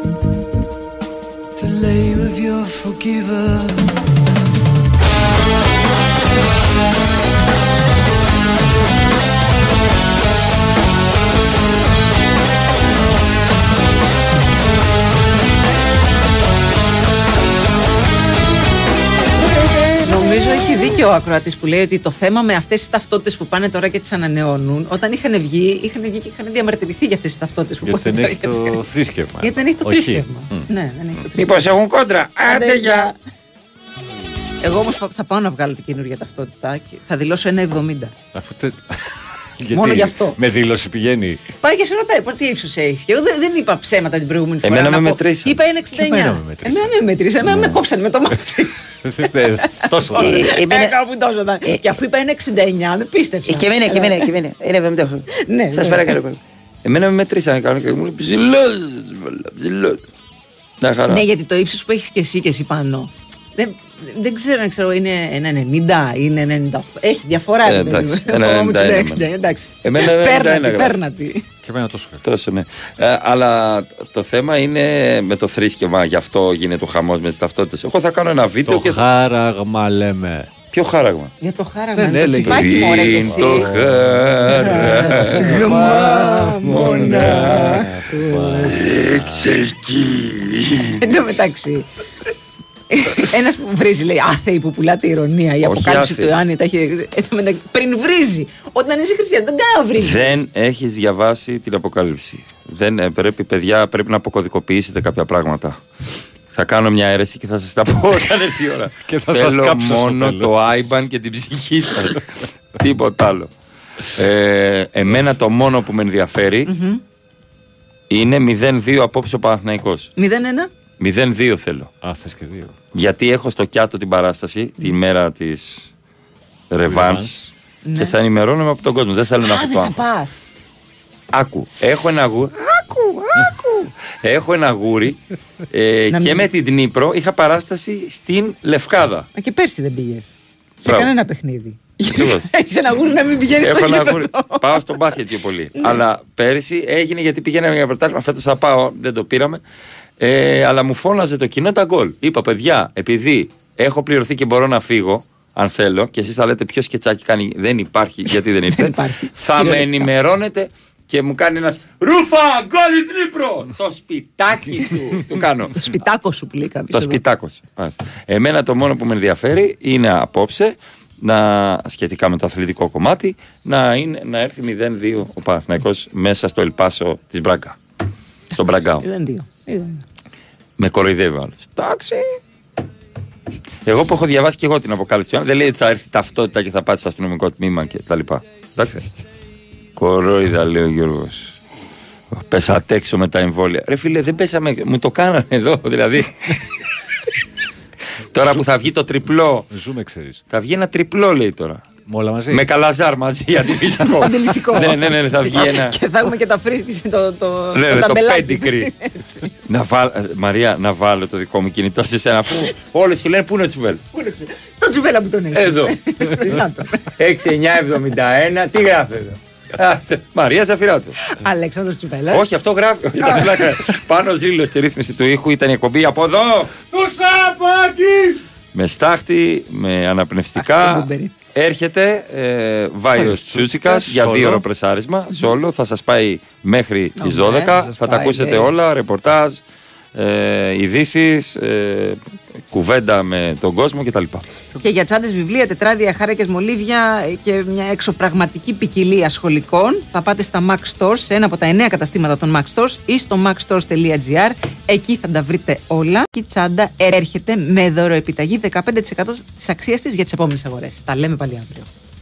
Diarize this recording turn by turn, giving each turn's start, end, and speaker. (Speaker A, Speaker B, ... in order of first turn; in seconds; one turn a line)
Speaker A: 1.6-3.9
Speaker B: 20.0-28.8
Speaker C: 27.8-30.7
Speaker B: 29.4-31.7
Speaker D: 31.3-33.1
Speaker B: 32.5-33.1
Speaker B: 34.6-38.1
Speaker C: 38.3-41.4
Speaker B: 39.7-40.4
Speaker B: 41.6-54.3
Speaker D: 44.6-45.6
Speaker C: 45.9-47.8
Speaker C: 49.0-50.5
Speaker D: 50.1-51.0
Speaker D: 53.5-60.0
Speaker B: 55.3-56.2
Speaker D: 60.8-61.2
Speaker B: 61.1-71.4
Speaker D: 67.6-69.2
Speaker D: 69.8-71.0
Speaker C: 71.6-72.2
Speaker D: 72.2-79.0
Speaker C: 78.7-80.5
Speaker D: 80.7-81.3
Speaker B: 81.4-83.8
Speaker C: 82.0-89.5
Speaker D: 82.4-87.9
Speaker B: 84.5-88.7
Speaker D: 88.6-91.0
Speaker B: 91.0-91.8
Speaker B: 92.9-100.4
Speaker D: 95.6-96.3
Speaker D: 100.0-105.8
Speaker D: 106.5-113.5
Speaker C: 109.0-110.6
Speaker D: 114.1-116.7
Speaker B: 116.7-117.0
Speaker D: 118.1-120.1
Speaker B: 120.2-120.7
Speaker D: 121.0-121.9
Speaker C: 122.0-122.8
Speaker D: 122.9-125.9
Speaker D: 126.7-130.0
Speaker C: 126.8-127.3
Speaker B: 127.8-128.1
Speaker B: 129.4-130.4
Speaker D: 131.3-132.5
Speaker B: 132.7-133.9
Speaker D: 134.2-139.3
Speaker B: 136.1-136.5
Speaker B: 139.3-140.3
Speaker D: 140.8-141.1
Speaker B: 140.8-144.9
Speaker D: 142.1-142.5
Speaker D: 143.6-149.6
Speaker B: 145.8-146.0
Speaker D: 150.2-165.8
Speaker B: 158.7-160.1
Speaker B: 165.7-167.2
Speaker D: 166.9-177.8
Speaker D: 178.5-179.1
Speaker B: 178.6-180.0
Speaker D: 180.8-182.3
Speaker D: 183.8-189.0
Speaker D: 189.9-191.6
Speaker D: 192.3-196.6
Speaker D: 198.3-199.7
Speaker C: 199.7-200.4
Speaker D: 200.5-201.9
Speaker C: 202.1-202.7
Speaker D: 202.5-206.0
Speaker B: 204.0-209.5
Speaker D: 207.7-208.9
Speaker D: 209.6-214.0
Speaker B: 214.1-217.1
Speaker D: 215.5-216.0
Speaker D: 217.2-221.2
Speaker B: 221.2-222.5
Speaker D: 222.3-226.7
Speaker B: 223.2-223.8
Speaker C: 226.9-228.3
Speaker D: 228.7-239.6
Speaker B: 230.6-231.3
Speaker C: 233.2-234.6
Speaker B: 237.2-238.7
Speaker D: 240.1-242.2
Speaker D: 242.7-244.4
Speaker B: 244.8-261.9